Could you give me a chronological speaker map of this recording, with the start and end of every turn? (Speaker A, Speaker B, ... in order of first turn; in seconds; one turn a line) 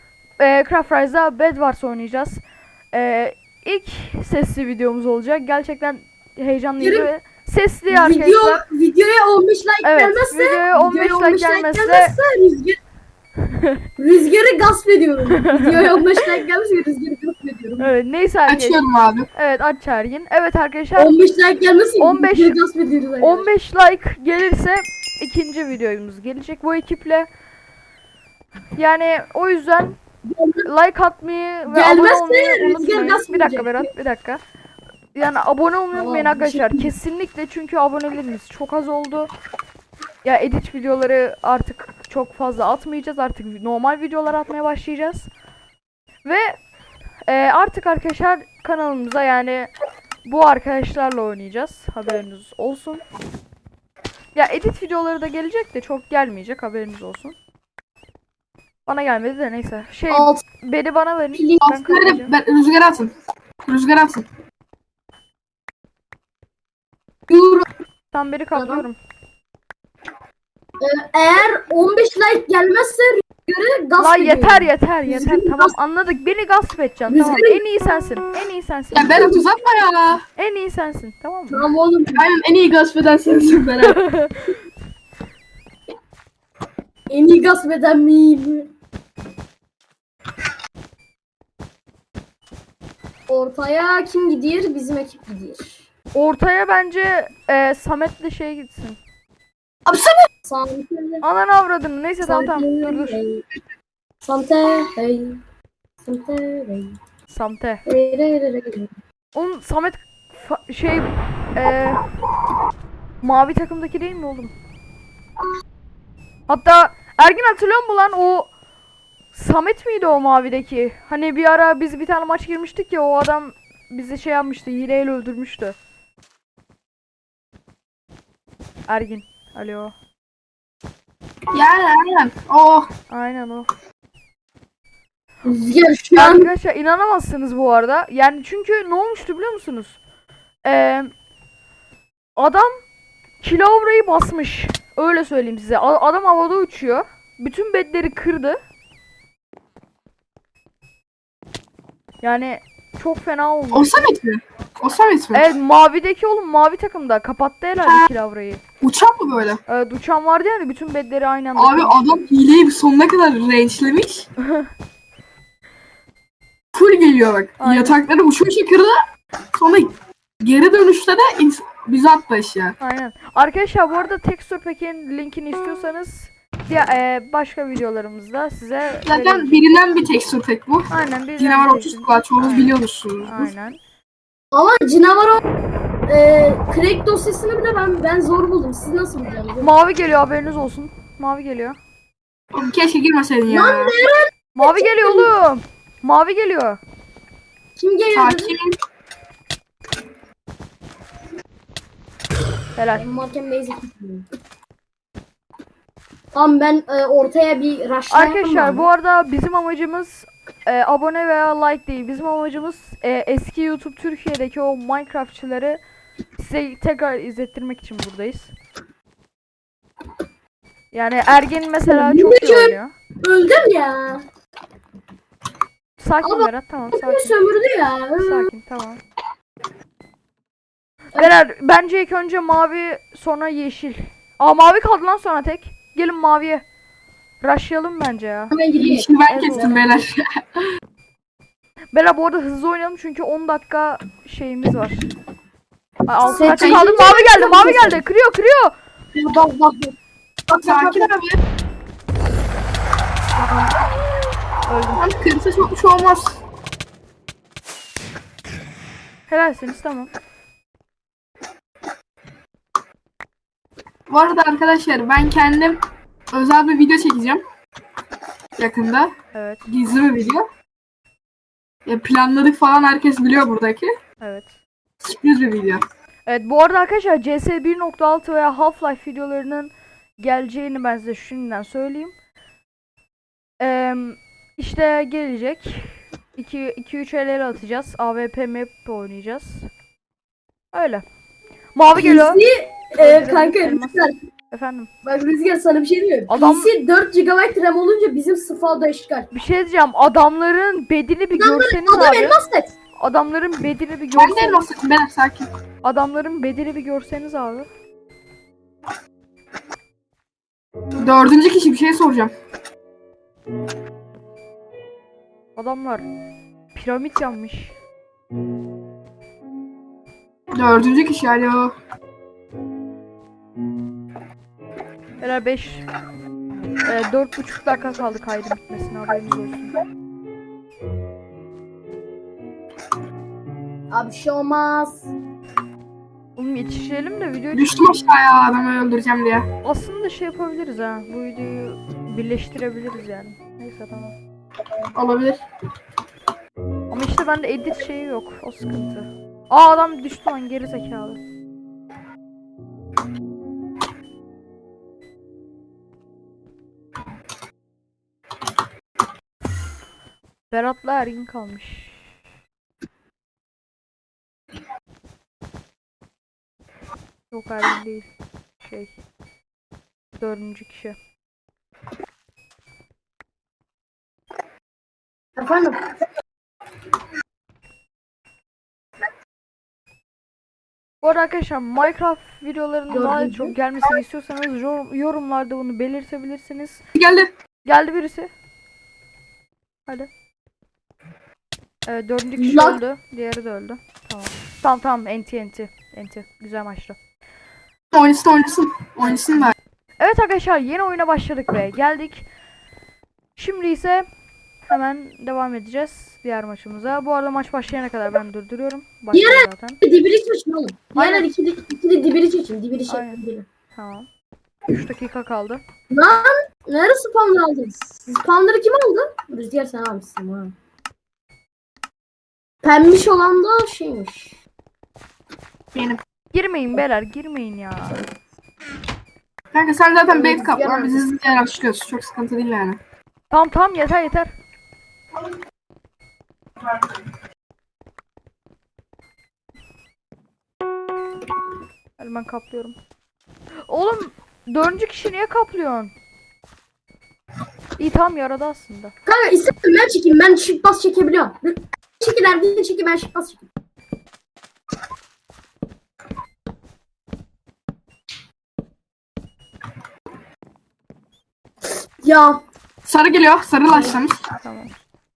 Speaker A: 0.4-8.6
Speaker B: 6.8-7.1
Speaker B: 7.9-12.8
Speaker A: 9.8-12.2
Speaker A: 13.5-13.8
Speaker B: 14.0-17.9
Speaker A: 15.3-15.9
Speaker A: 17.8-18.8
Speaker C: 18.5-19.3
Speaker A: 19.3-21.1
Speaker B: 20.9-23.5
Speaker A: 22.0-22.6
Speaker A: 23.2-27.3
Speaker A: 28.8-30.0
Speaker B: 30.2-30.7
Speaker A: 30.6-34.4
Speaker B: 31.7-33.9
Speaker A: 35.1-39.3
Speaker B: 35.9-36.9
Speaker A: 40.2-45.3
Speaker A: 46.2-46.6
Speaker A: 47.3-49.7
Speaker A: 50.2-53.0
Speaker A: 54.3-57.3
Speaker A: 58.9-62.3
Speaker B: 60.1-60.4
Speaker B: 61.3-61.7
Speaker C: 61.6-63.1
Speaker C: 63.7-64.2
Speaker B: 67.3-67.7
Speaker A: 68.1-69.0
Speaker B: 68.5-68.8
Speaker B: 70.8-75.7
Speaker A: 74.0-79.3
Speaker B: 77.1-77.6
Speaker C: 78.9-80.2
Speaker B: 79.0-79.4
Speaker A: 80.3-81.6
Speaker B: 81.5-82.2
Speaker C: 82.1-84.0
Speaker A: 83.8-84.5
Speaker B: 87.1-88.7
Speaker B: 93.3-95.8
Speaker A: 96.1-99.0
Speaker C: 99.9-100.1
Speaker B: 100.4-101.2
Speaker A: 101.2-103.2
Speaker B: 102.2-103.4
Speaker B: 104.2-105.4
Speaker B: 106.0-107.0
Speaker A: 107.3-107.8
Speaker B: 107.8-108.9
Speaker A: 109.3-112.0
Speaker A: 113.2-114.5
Speaker A: 116.5-118.5
Speaker A: 119.3-125.8
Speaker A: 128.9-129.9
Speaker C: 131.5-132.9
Speaker A: 133.1-133.7
Speaker B: 135.4-136.5
Speaker A: 136.1-140.0
Speaker A: 140.6-141.1
Speaker A: 142.3-142.8
Speaker A: 143.4-148.6
Speaker A: 152.2-154.1
Speaker C: 153.7-155.5
Speaker A: 155.3-158.6
Speaker C: 158.8-159.6
Speaker A: 159.7-162.1
Speaker C: 161.6-164.3
Speaker A: 164.4-164.7
Speaker C: 166.7-168.9
Speaker A: 167.6-168.0
Speaker C: 169.5-169.9
Speaker C: 170.4-172.8
Speaker A: 172.8-179.7
Speaker C: 179.0-183.5
Speaker A: 180.9-182.7
Speaker A: 183.2-183.8
Speaker B: 184.5-185.4
Speaker B: 186.1-189.7
Speaker A: 189.6-191.8
Speaker C: 192.5-193.9
Speaker B: 193.5-195.3
Speaker A: 194.6-196.8
Speaker B: 197.8-198.5
Speaker C: 198.1-198.8
Speaker A: 202.8-203.0
Speaker B: 203.0-204.2
Speaker B: 206.3-208.8
Speaker A: 208.1-215.8
Speaker A: 216.4-218.5
Speaker A: 220.9-222.9
Speaker B: 221.9-224.2
Speaker A: 226.0-227.3
Speaker B: 226.2-228.5
Speaker A: 228.2-229.0
Speaker A: 231.1-236.6
Speaker A: 237.4-238.5
Speaker B: 238.5-239.7
Speaker C: 238.8-240.4
Speaker A: 239.3-239.8
Speaker A: 241.9-245.1
Speaker A: 246.1-248.7
Speaker B: 246.2-248.0
Speaker C: 246.4-246.9
Speaker B: 249.1-249.9
Speaker B: 250.5-251.1
Speaker C: 250.6-251.4
Speaker A: 254.7-255.0
Speaker C: 254.9-256.4
Speaker A: 259.3-260.1
Speaker C: 264.1-265.8
Speaker C: 266.3-267.4
Speaker C: 268.6-269.1
Speaker A: 269.3-269.7
Speaker C: 269.7-270.4
Speaker C: 271.9-273.9
Speaker A: 274.2-274.5
Speaker C: 275.0-275.8
Speaker A: 276.2-282.1
Speaker A: 283.6-289.7
Speaker A: 290.7-291.0
Speaker A: 291.7-292.4
Speaker B: 291.9-294.1
Speaker A: 293.0-294.9
Speaker B: 295.0-299.3
Speaker A: 296.3-296.7
Speaker A: 299.3-302.4
Speaker B: 301.4-302.7
Speaker A: 303.0-304.6
Speaker C: 304.1-305.5
Speaker A: 305.8-307.7
Speaker C: 311.0-312.3
Speaker A: 315.6-316.0
Speaker A: 316.7-317.7
Speaker C: 320.5-321.7
Speaker A: 325.2-325.9
Speaker A: 326.8-329.7
Speaker B: 333.9-335.1
Speaker A: 336.4-337.8
Speaker C: 337.5-339.5
Speaker A: 339.6-344.1
Speaker C: 344.9-345.4
Speaker A: 346.9-351.2
Speaker A: 360.5-362.0
Speaker A: 367.3-368.1
Speaker A: 368.6-368.9
Speaker A: 370.2-371.0
Speaker B: 375.4-375.8
Speaker A: 381.0-386.8
Speaker B: 382.9-383.5
Speaker C: 386.9-387.3
Speaker A: 387.6-388.3
Speaker A: 391.9-397.0
Speaker B: 392.4-392.8
Speaker C: 397.9-399.5
Speaker A: 400.0-402.3
Speaker A: 403.4-404.1
Speaker A: 404.7-409.8
Speaker B: 409.1-413.4
Speaker A: 410.9-411.3
Speaker A: 412.9-413.2
Speaker A: 413.7-414.1
Speaker A: 414.7-415.6
Speaker B: 415.9-420.5
Speaker B: 422.6-424.4
Speaker C: 425.7-426.0
Speaker A: 426.3-428.0
Speaker C: 429.5-432.8
Speaker B: 430.1-431.1
Speaker A: 433.3-434.3
Speaker A: 442.0-442.8
Speaker A: 443.7-445.9
Speaker A: 447.8-448.9
Speaker B: 449.1-453.5
Speaker B: 462.0-462.4
Speaker C: 462.8-464.2
Speaker A: 464.4-464.7